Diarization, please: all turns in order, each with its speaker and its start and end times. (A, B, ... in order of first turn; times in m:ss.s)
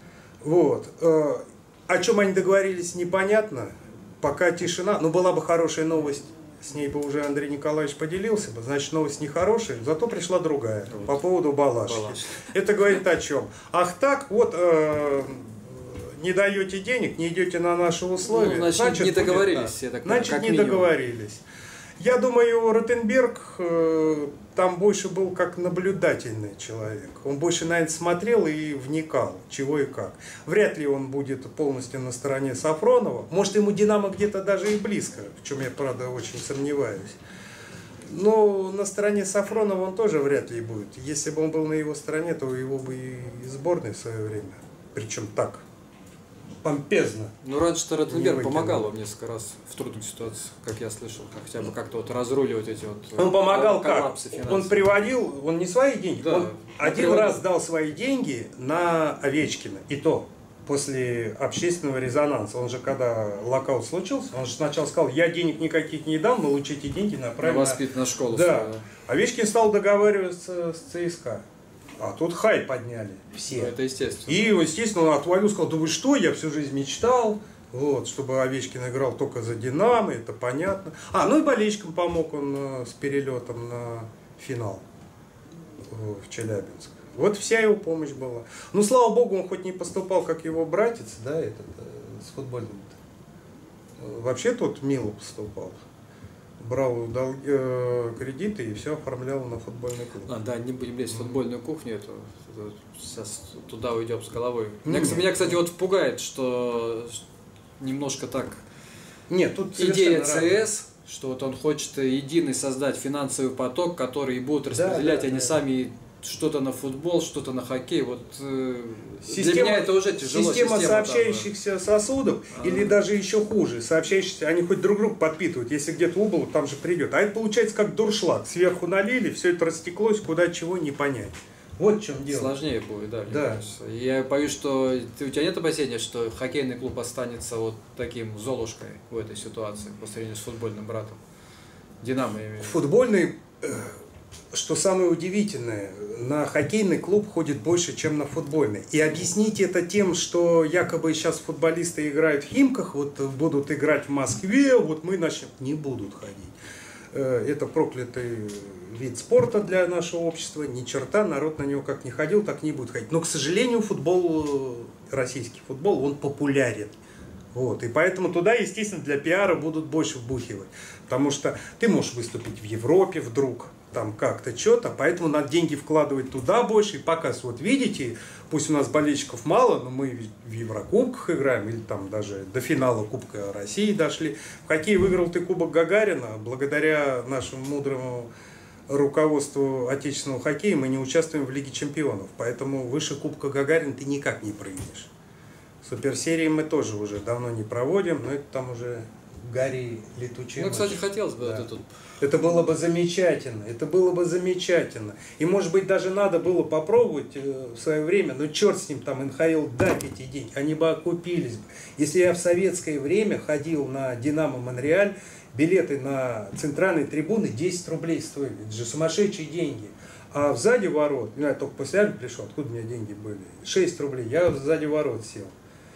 0:00.4-0:21.4 A
0:10.9-0:11.2 B
0:11.8-0:12.5 B
0:18.3-0:21.0 B
0:22.0-0:37.2 A
0:38.0-0:45.6 A
0:46.6-0:47.3 A
0:47.4-0:54.9 B
0:48.1-0:48.9 A
0:53.2-1:11.4 A
0:56.2-0:57.4 B
1:07.4-1:08.8 B
1:12.0-1:13.7 A
1:13.5-1:14.6 B
1:14.3-1:24.8 A
1:25.9-1:33.0 A
1:34.0-1:35.8 A
1:36.6-1:40.3 A
1:40.2-1:47.2 B
1:41.1-1:41.4 A
1:44.8-1:45.6 A
1:47.8-1:48.6 B
1:49.3-1:50.6 A
1:49.8-2:01.5 B
1:54.7-1:55.6 A
1:59.2-2:12.6 A
2:02.5-2:03.0 B
2:12.3-2:21.2 B
2:13.3-2:13.6 A
2:22.0-2:22.8 B
2:22.6-2:24.0 A
2:24.5-2:36.6 A
2:37.1-2:46.9 A
2:47.5-3:08.3 A
3:08.9-3:15.1 A
3:15.8-3:21.7 A
3:20.6-3:21.9 B
3:22.2-3:45.5 A